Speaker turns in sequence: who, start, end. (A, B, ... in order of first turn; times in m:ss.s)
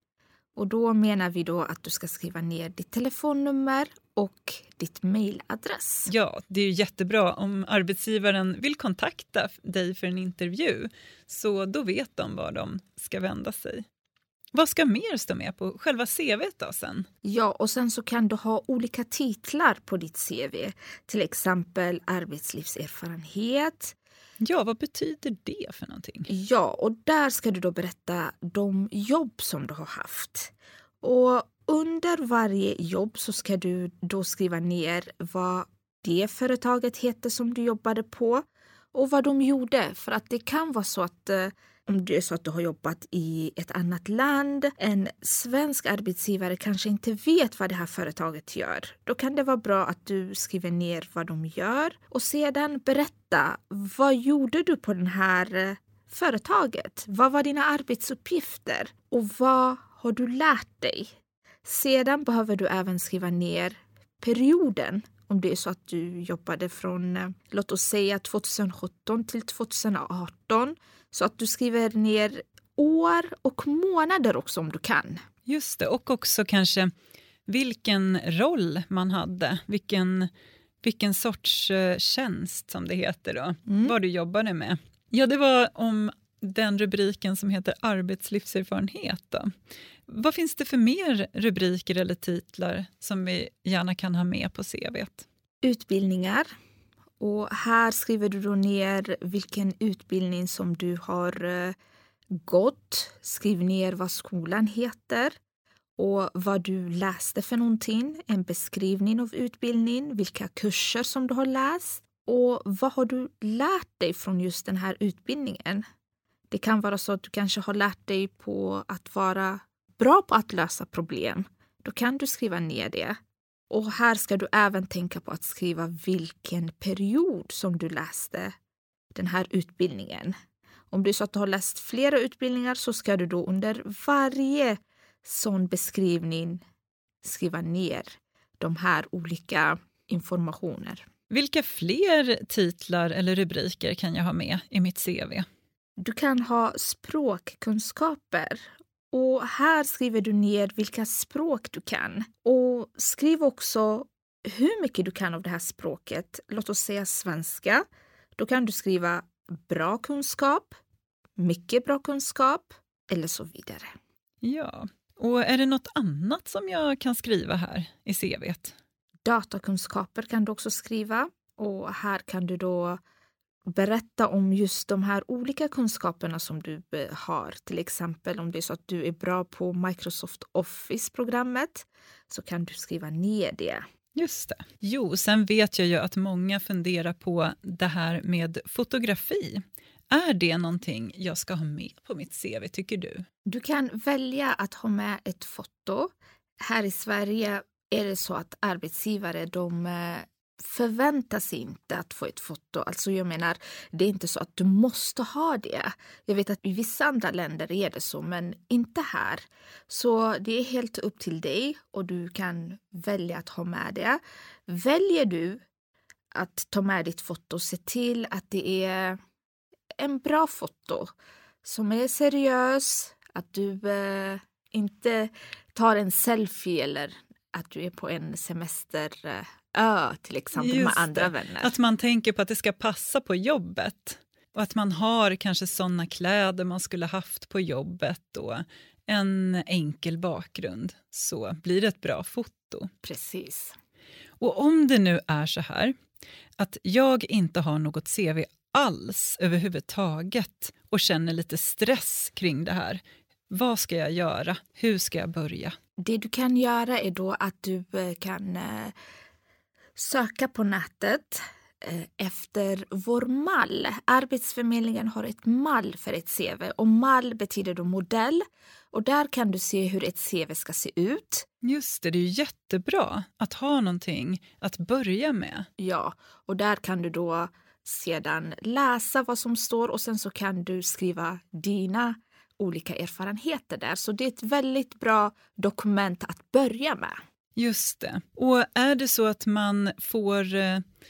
0:00.6-0:06.1 A
0:06.1-0:13.8 B
0:14.5-0:17.1 B
0:17.2-0:24.0 A
0:24.4-0:26.3 B
0:26.3-1:01.1 A
1:01.6-1:15.2 A
1:15.5-1:16.9 B
1:17.5-1:20.3 B
1:20.8-1:29.5 B
1:23.7-1:24.0 A
1:30.1-1:35.3 B
1:35.6-1:36.5 A
1:37.2-1:41.8 A
1:42.4-1:45.4 A
1:46.0-1:55.8 A
1:56.5-2:03.2 A
2:03.7-2:08.5 A
2:09.1-2:10.3 A
2:10.9-2:16.6 A
2:17.2-2:21.0 A
2:21.3-2:25.5 B
2:26.0-2:37.8 A
2:38.4-2:40.8 A
2:41.4-2:43.9 A
2:44.4-2:48.8 B
2:49.2-2:53.0 A
2:53.7-3:03.8 A
3:04.2-3:13.2 B
3:13.5-3:35.6 A
3:36.4-3:39.2 A
3:40.0-3:41.1 A
3:41.6-3:51.7 A
3:50.6-4:02.9 B
4:03.0-4:03.8 A
4:04.4-4:05.9 B
4:06.6-4:15.8 B
4:16.0-4:18.9 A
4:20.0-4:31.5 A
4:31.6-4:35.7 B
4:35.8-4:47.2 A
4:47.6-4:50.8 B